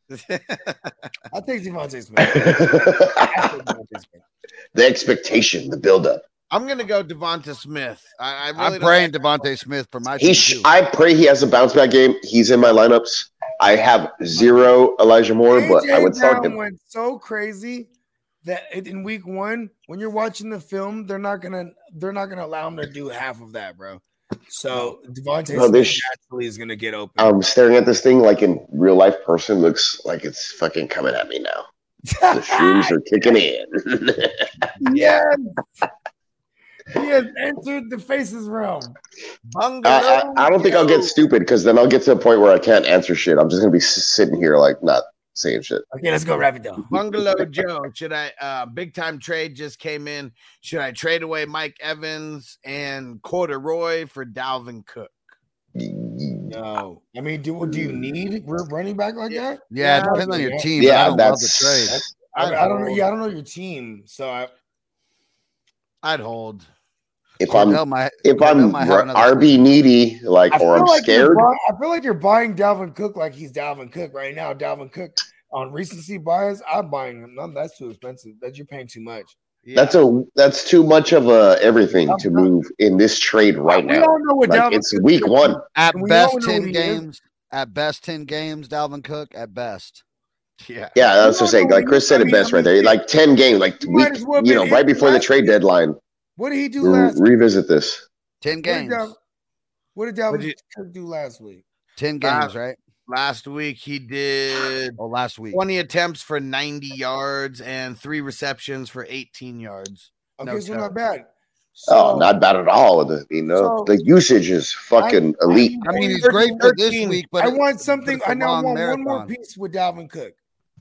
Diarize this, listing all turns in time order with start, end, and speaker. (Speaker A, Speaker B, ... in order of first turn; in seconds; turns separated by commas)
Speaker A: 0.1-0.9, Speaker B: 1.3-4.2, Speaker C: 2.2-3.4, Speaker C: 4.7-6.2, Speaker A: 6.5-9.4, Speaker D: 8.6-10.7, Speaker C: 10.2-16.6, Speaker B: 15.5-17.9, Speaker B: 18.4-27.3, Speaker C: 25.5-26.0, Speaker C: 27.2-31.6, Speaker B: 32.1-33.0, Speaker C: 32.3-34.5, Speaker B: 34.8-35.6, Speaker A: 34.9-35.2, Speaker B: 36.9-39.0, Speaker A: 39.5-41.2, Speaker C: 39.8-45.8, Speaker B: 45.9-46.9, Speaker A: 46.9-55.2, Speaker C: 55.8-56.5, Speaker B: 56.5-60.9, Speaker C: 57.6-58.0, Speaker A: 59.3-60.5, Speaker D: 59.7-62.0, Speaker C: 60.8-62.1, Speaker B: 62.3-64.5, Speaker A: 62.3-63.1, Speaker A: 66.0-66.7, Speaker C: 67.4-71.5, Speaker D: 67.5-69.7, Speaker B: 70.5-79.3, Speaker A: 79.6-80.0, Speaker C: 79.7-85.6, Speaker B: 82.1-82.5, Speaker B: 83.7-87.0, Speaker D: 85.7-90.0, Speaker A: 90.6-91.0, Speaker C: 90.9-96.0, Speaker B: 91.1-93.0, Speaker B: 93.8-95.5, Speaker B: 96.4-97.3, Speaker C: 96.8-98.0, Speaker D: 98.4-99.1, Speaker B: 98.6-99.2, Speaker B: 99.9-101.6, Speaker A: 100.3-100.5, Speaker D: 102.0-102.8, Speaker A: 102.2-102.5, Speaker A: 103.1-105.0, Speaker D: 105.0-105.6, Speaker A: 105.5-110.1, Speaker B: 110.4-112.3, Speaker D: 110.4-110.9, Speaker C: 111.9-115.8, Speaker B: 113.5-113.9, Speaker B: 115.0-116.5, Speaker D: 115.8-119.3, Speaker A: 115.9-117.2, Speaker B: 117.4-120.4